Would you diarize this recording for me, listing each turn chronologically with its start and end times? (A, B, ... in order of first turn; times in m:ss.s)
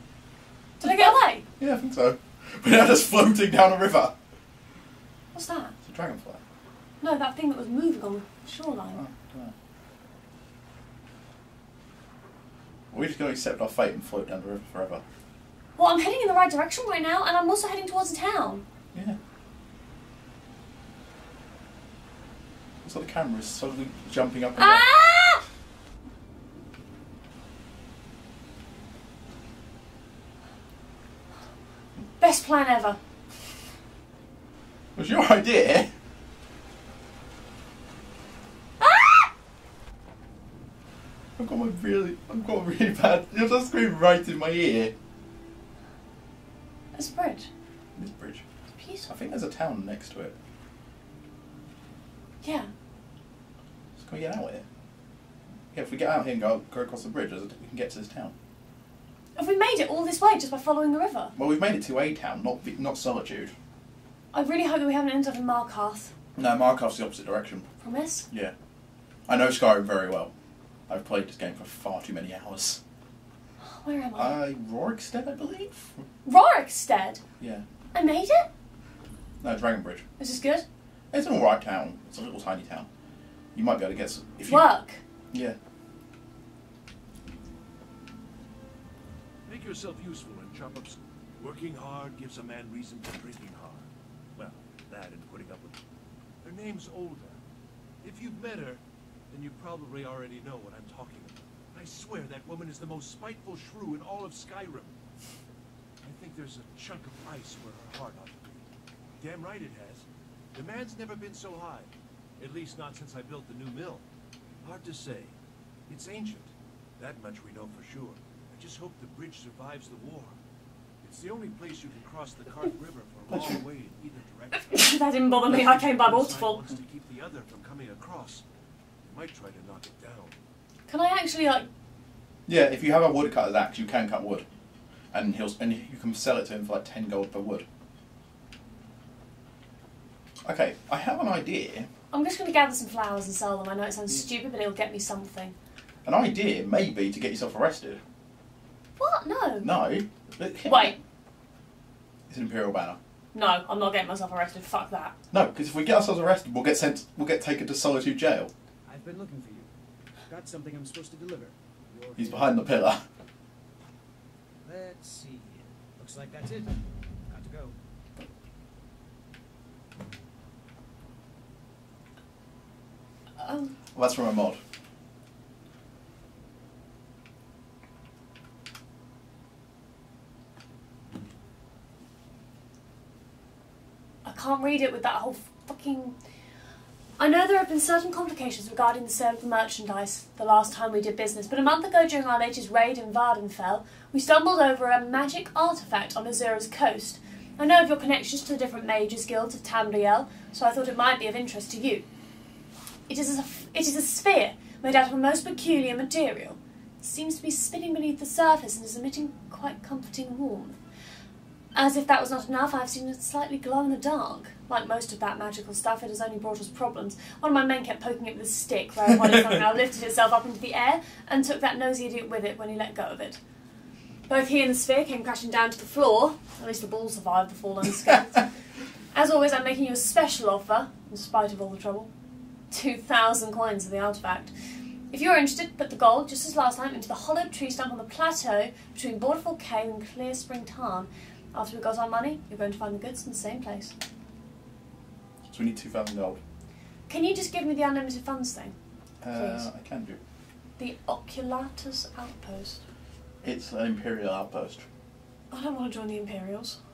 0:00.8-0:01.4 A
0:00.8-0:04.2 B
0:05.3-0:05.7 A
0:05.8-0:06.4 B
0:07.0-0:09.0 A
0:08.9-0:09.5 B
0:12.9-0:15.0 B
0:15.8-0:18.6 A
0:18.9-0:19.2 B
0:22.8-0:24.9 B
0:24.6-0:25.4 A
0:32.2-0:33.0 A
0:35.0-0:35.9 B
0:38.8-0:39.3 A
0:41.4-0:44.9 B
0:46.9-0:47.5 A
0:48.0-0:48.4 B
0:48.8-0:49.1 A
0:49.0-0:50.4 B
0:52.4-0:52.7 A
0:54.0-0:54.6 B
0:55.7-0:58.3 B
0:59.4-1:01.3 A
1:01.4-1:03.5 B
1:04.3-1:06.1 A
1:06.4-1:07.7 B
1:07.8-1:08.3 A
1:09.3-1:10.3 B
1:10.9-1:12.8 B
1:13.6-1:14.4 A
1:14.2-1:16.1 B
1:16.2-1:17.2 A
1:17.4-1:17.6 B
1:17.9-1:18.5 A
1:19.4-1:20.0 B
1:20.2-1:20.6 A
1:21.1-1:22.9 B
1:23.5-1:24.7 B
1:24.5-1:25.0 A
1:25.3-1:25.6 B
1:29.5-1:35.8 C
1:36.4-1:37.4 C
1:38.0-1:45.0 C
1:46.0-1:48.6 C
1:49.2-1:54.0 C
1:54.6-1:55.4 C
1:55.9-2:00.4 C
2:01.0-2:08.4 C
2:04.7-2:06.6 A
2:09.0-2:10.4 C
2:10.9-2:11.7 A
2:12.5-2:14.4 B
2:15.1-2:17.7 B
2:20.4-2:21.9 B
2:22.1-2:25.6 A
2:26.0-2:28.0 B
2:29.0-2:29.7 A
2:29.6-2:31.0 B
2:30.7-2:31.0 A
2:32.3-2:33.0 B
2:33.3-2:35.2 A
2:35.3-2:38.5 B
2:38.8-2:39.7 D
2:40.3-2:42.6 D
2:42.2-2:43.0 B
2:44.6-2:47.8 D
2:53.4-2:53.8 A
2:54.0-2:54.6 B
3:04.2-3:06.2 A
3:07.2-3:22.0 A
3:23.1-3:30.8 A
3:31.7-3:43.4 A
3:44.3-3:48.5 A
3:49.1-3:52.1 A
3:52.7-3:54.5 A
3:55.1-4:04.0 A
4:05.4-4:06.4 B
4:07.1-4:08.8 A
4:09.2-4:10.2 B
4:09.3-4:09.7 A
4:10.8-4:12.8 A
4:13.4-4:14.9 B
4:15.5-4:16.8 A